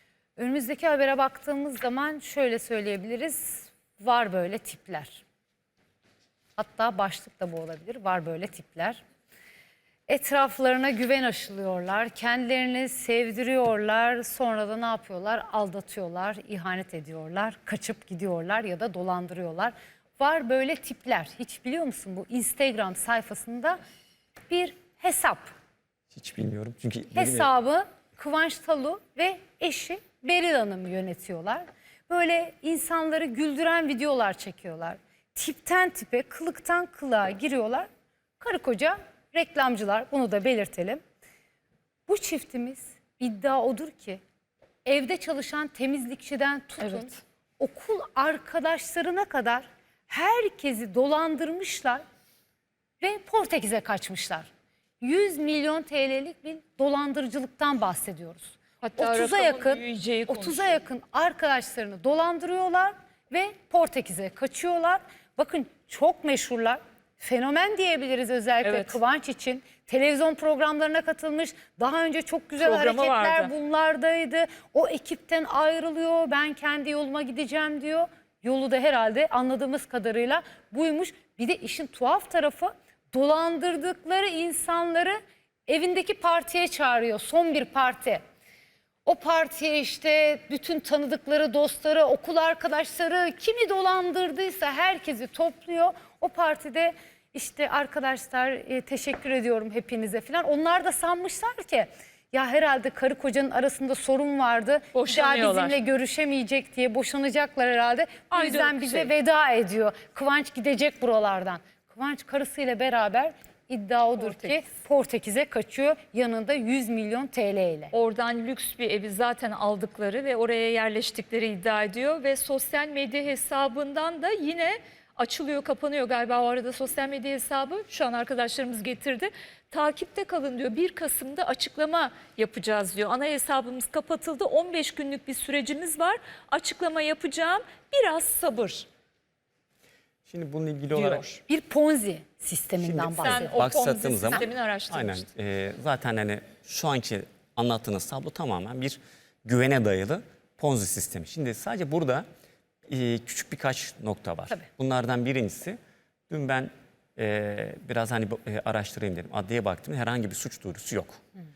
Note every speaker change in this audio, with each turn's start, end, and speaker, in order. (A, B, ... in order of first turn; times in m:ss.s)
0:00.4-0:05.2 A
0:06.6-0:09.0 A
0:10.1-0:23.8 A
0:24.5-0:25.5 A
0:26.1-0:27.5 B
0:27.1-0:37.9 A
0:38.4-0:41.0 A
0:42.1-0:44.2 A
0:44.8-0:52.0 A
0:46.8-0:47.1 C
0:53.0-0:54.5 A
0:55.0-1:28.2 A
0:58.8-1:00.8 C
1:08.6-1:09.0 C
1:12.6-1:13.5 C
1:29.0-1:57.9 A
1:44.9-1:45.8 C
1:48.3-1:49.1 C
1:54.2-1:54.7 C
1:57.9-2:18.9 C
2:20.3-2:21.3 B
2:20.9-2:21.4 C
2:21.5-2:23.6 A
2:22.8-2:32.2 B
2:23.2-2:25.3 C
2:32.9-2:35.8 B
2:36.3-2:41.2 B